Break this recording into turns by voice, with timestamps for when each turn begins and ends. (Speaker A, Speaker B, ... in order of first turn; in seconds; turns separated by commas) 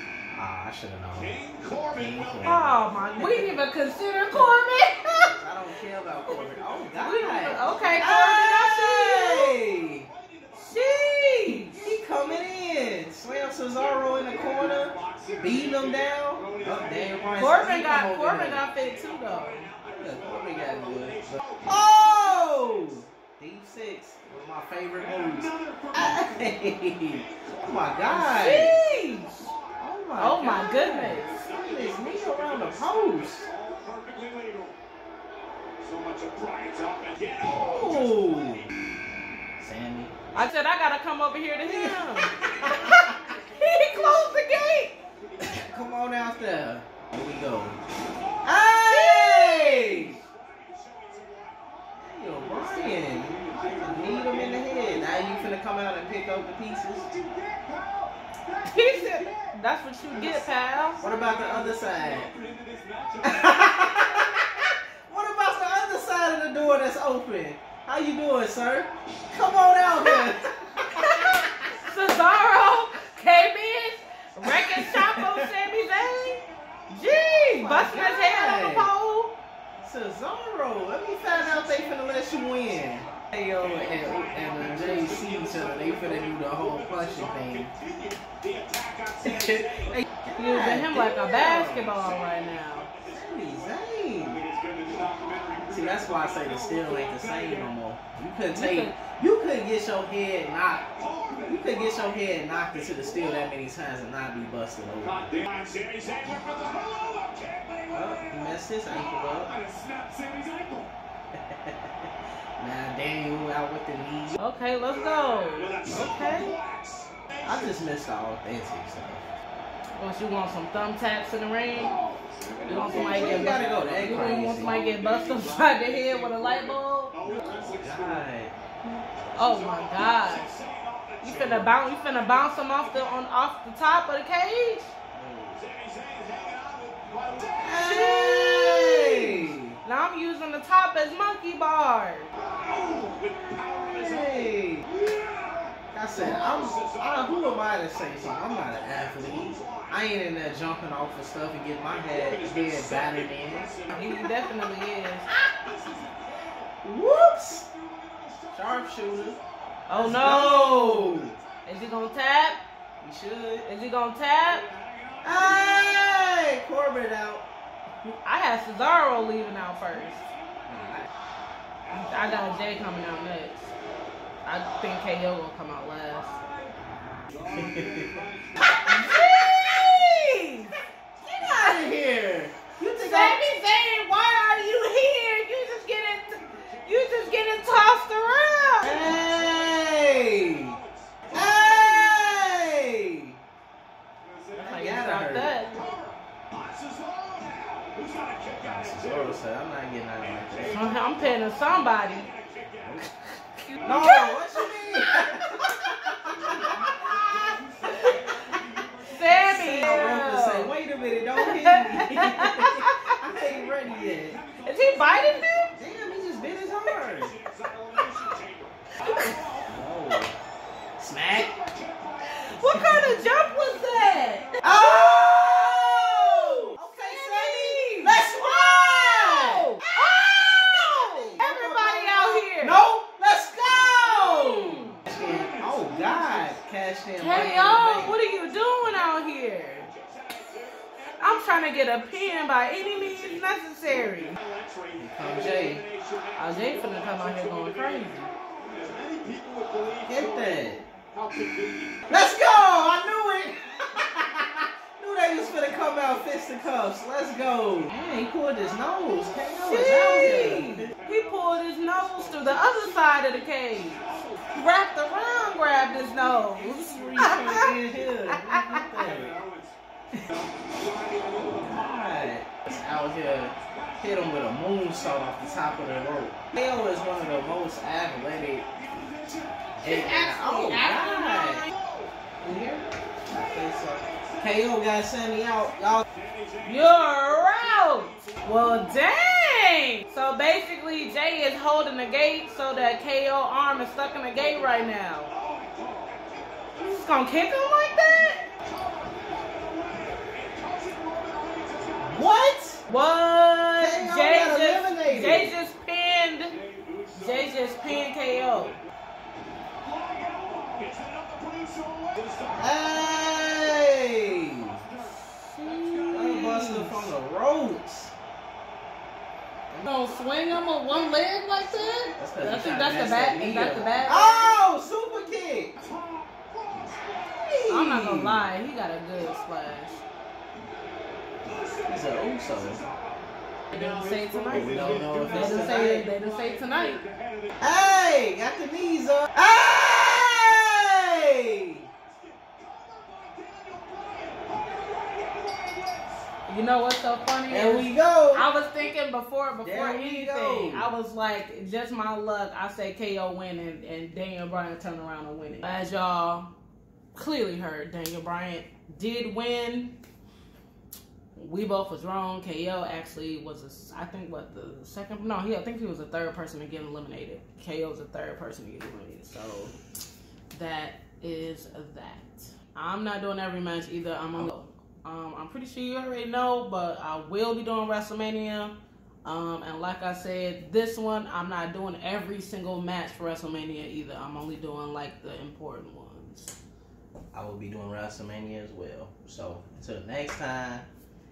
Speaker A: 0.3-1.4, Speaker B: 1.1-3.6, Speaker A: 1.9-3.6, Speaker C: 2.4-5.3, Speaker A: 5.3-10.1, Speaker B: 6.0-8.1, Speaker C: 7.0-9.6, Speaker B: 9.8-23.1, Speaker C: 10.5-11.8, Speaker A: 11.8-18.7, Speaker C: 17.3-19.7, Speaker A: 19.9-28.8, Speaker B: 25.0-29.8, Speaker C: 28.1-29.5, Speaker A: 29.8-33.5, Speaker C: 30.2-31.3, Speaker B: 30.4-34.8, Speaker B: 35.8-38.7, Speaker A: 37.4-38.7, Speaker A: 39.6-40.3, Speaker C: 40.3-45.0, Speaker A: 41.6-43.2, Speaker B: 42.3-46.5, Speaker A: 45.4-47.8, Speaker B: 48.0-48.9, Speaker A: 48.4-50.2, Speaker C: 48.9-50.1, Speaker B: 49.9-64.3, Speaker A: 52.0-57.1, Speaker C: 58.7-61.0, Speaker A: 61.0-62.3, Speaker A: 63.2-71.7, Speaker B: 69.2-70.2, Speaker C: 71.8-79.3, Speaker A: 74.4-75.5, Speaker B: 75.7-77.7, Speaker A: 77.5-78.9, Speaker A: 79.8-87.7, Speaker B: 80.7-90.0, Speaker A: 89.2-92.0, Speaker C: 90.3-92.9, Speaker B: 91.7-97.7, Speaker A: 93.0-94.4, Speaker A: 95.7-105.2, Speaker C: 98.5-99.0, Speaker B: 100.8-103.5, Speaker B: 105.0-110.9, Speaker A: 107.9-109.5, Speaker A: 111.3-114.4, Speaker C: 114.4-116.5, Speaker B: 114.8-117.8, Speaker A: 115.9-116.3, Speaker A: 117.4-119.3, Speaker C: 120.0-122.0, Speaker B: 121.7-128.3, Speaker C: 122.7-127.2, Speaker A: 122.7-124.8, Speaker A: 127.2-129.0, Speaker B: 129.3-133.2, Speaker C: 129.3-130.5, Speaker C: 131.2-134.9, Speaker A: 135.1-135.6, Speaker B: 135.6-138.2, Speaker A: 137.6-139.8, Speaker C: 137.6-142.3, Speaker B: 142.3-150.0, Speaker A: 143.8-144.9, Speaker A: 145.9-154.1, Speaker B: 151.8-154.3, Speaker C: 153.9-155.3, Speaker B: 155.6-156.8, Speaker A: 156.8-157.6, Speaker B: 157.5-159.9, Speaker A: 158.5-159.4, Speaker C: 159.9-162.6, Speaker A: 159.9-161.3, Speaker B: 160.8-161.8, Speaker A: 163.0-163.7, Speaker C: 163.6-164.6, Speaker B: 164.4-166.1, Speaker A: 165.2-167.4, Speaker C: 168.2-170.2, Speaker B: 169.0-171.1, Speaker A: 170.7-171.1, Speaker B: 171.8-172.9, Speaker C: 171.9-173.7, Speaker C: 174.4-176.3, Speaker B: 176.1-176.7, Speaker B: 177.3-178.9, Speaker A: 177.5-178.1, Speaker A: 178.7-179.9, Speaker C: 178.8-181.9, Speaker A: 181.3-183.4, Speaker C: 183.0-189.1, Speaker B: 186.3-192.6, Speaker A: 188.8-190.8, Speaker A: 191.3-193.4, Speaker B: 194.2-199.4, Speaker C: 194.6-195.8, Speaker A: 194.6-195.6, Speaker A: 198.6-200.8, Speaker B: 200.2-203.1, Speaker C: 200.7-202.3, Speaker C: 203.0-207.0, Speaker B: 203.7-204.1, Speaker A: 203.8-208.2, Speaker B: 206.3-210.4, Speaker C: 209.1-210.7, Speaker A: 209.4-214.4, Speaker C: 211.4-213.2, Speaker B: 213.2-219.9, Speaker C: 214.6-215.7, Speaker A: 215.8-217.3, Speaker A: 219.2-220.3, Speaker A: 221.0-221.6, Speaker B: 221.3-224.8, Speaker C: 222.5-232.8, Speaker A: 222.7-223.1, Speaker A: 224.6-238.2, Speaker C: 233.9-235.0, Speaker B: 235.1-252.2, Speaker C: 237.2-239.9, Speaker C: 241.2-244.4, Speaker A: 244.9-245.8, Speaker C: 246.3-248.3, Speaker A: 250.1-250.9, Speaker A: 252.1-260.9, Speaker B: 259.1-268.3, Speaker C: 259.6-264.0, Speaker C: 264.5-267.7, Speaker A: 266.8-269.4, Speaker C: 268.3-268.8, Speaker B: 268.9-280.2, Speaker A: 271.3-278.7, Speaker A: 279.8-281.7, Speaker C: 279.8-281.7, Speaker B: 281.6-282.2, Speaker C: 282.4-282.8, Speaker B: 283.3-284.7, Speaker A: 283.3-286.1, Speaker B: 285.5-289.0, Speaker C: 286.6-295.3, Speaker B: 295.3-302.5, Speaker C: 296.8-298.5, Speaker A: 302.0-302.8, Speaker C: 302.9-306.5, Speaker A: 303.8-305.5, Speaker B: 306.5-308.9, Speaker C: 307.1-308.8, Speaker B: 309.8-316.6, Speaker A: 312.5-314.8, Speaker C: 315.0-317.1, Speaker A: 316.1-318.1, Speaker C: 319.8-324.5, Speaker B: 320.0-324.4, Speaker A: 322.2-325.7, Speaker B: 325.8-327.7, Speaker A: 327.2-328.4, Speaker C: 327.7-330.0, Speaker B: 329.2-330.9, Speaker B: 331.4-337.6, Speaker A: 331.9-332.8, Speaker C: 333.7-337.0, Speaker A: 334.5-336.1, Speaker A: 337.6-341.9, Speaker B: 341.8-346.3, Speaker C: 346.5-356.5, Speaker A: 347.5-348.5, Speaker A: 349.6-350.9, Speaker C: 357.1-360.0, Speaker C: 361.4-369.8, Speaker C: 370.5-386.5, Speaker A: 387.3-390.9